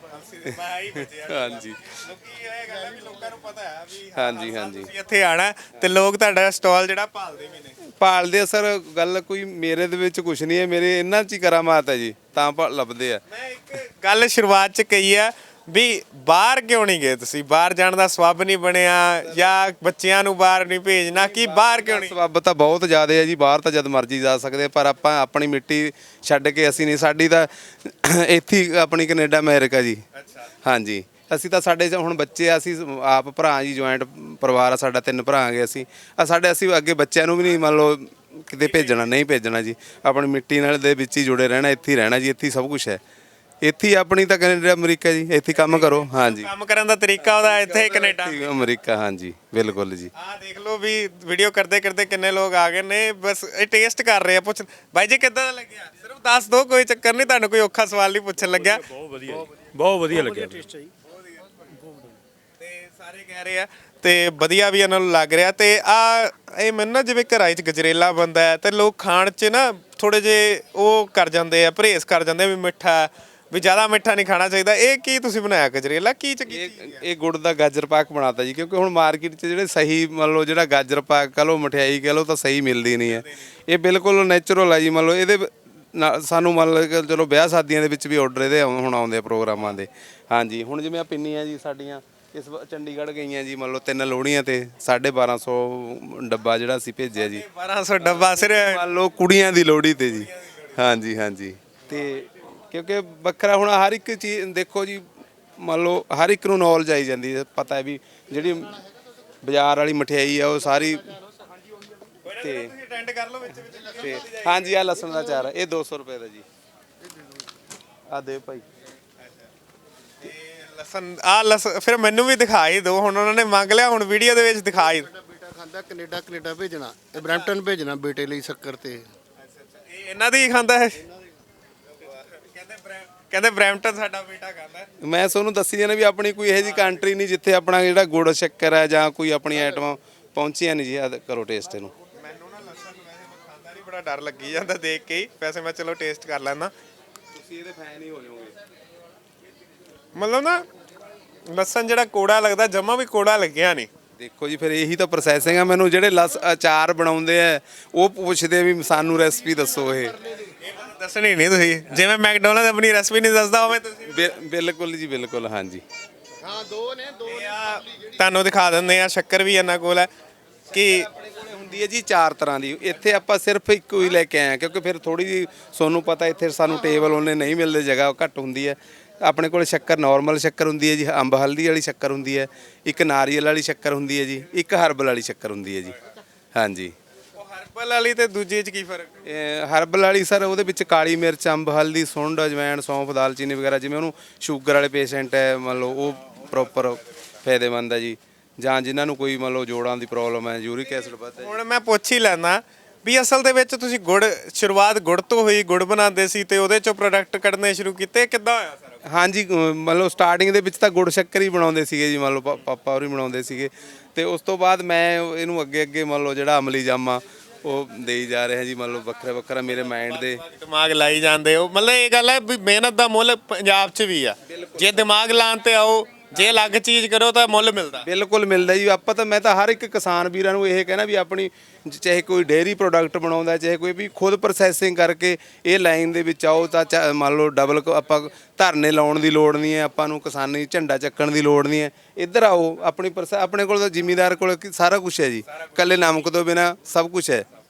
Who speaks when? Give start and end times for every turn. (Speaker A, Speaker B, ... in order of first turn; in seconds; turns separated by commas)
Speaker A: 0.1-7.8, Speaker B: 0.5-1.9, Speaker B: 4.1-4.9, Speaker B: 7.9-13.2, Speaker A: 13.3-22.2, Speaker B: 21.1-30.0, Speaker A: 30.2-30.5, Speaker B: 30.6-43.0, Speaker A: 38.7-39.0, Speaker B: 43.6-46.5, Speaker A: 45.5-48.6, Speaker B: 47.2-50.1, Speaker A: 50.2-58.9, Speaker C: 58.7-60.7, Speaker A: 62.6-77.0, Speaker B: 76.5-97.4, Speaker A: 97.2-98.8, Speaker B: 98.0-105.1, Speaker B: 105.6-108.9, Speaker B: 109.4-111.2, Speaker A: 112.3-115.0, Speaker B: 112.4-112.7, Speaker B: 114.0-116.5, Speaker B: 118.1-118.7, Speaker A: 120.2-125.1, Speaker D: 125.1-129.1, Speaker A: 127.2-127.4, Speaker A: 129.5-131.1, Speaker A: 132.1-134.9, Speaker B: 135.0-141.9, Speaker A: 142.2-146.7, Speaker B: 147.3-148.6, Speaker A: 150.2-150.6, Speaker A: 151.5-153.9, Speaker B: 154.2-160.2, Speaker A: 160.6-164.3, Speaker B: 164.1-165.8, Speaker D: 166.4-167.3, Speaker A: 167.2-170.1, Speaker A: 170.7-171.1, Speaker B: 171.1-186.0, Speaker B: 186.6-186.9, Speaker A: 187.4-189.2, Speaker B: 189.2-201.5, Speaker A: 201.4-209.0, Speaker B: 209.1-220.4, Speaker A: 219.9-228.1, Speaker B: 224.5-225.1, Speaker B: 228.0-247.5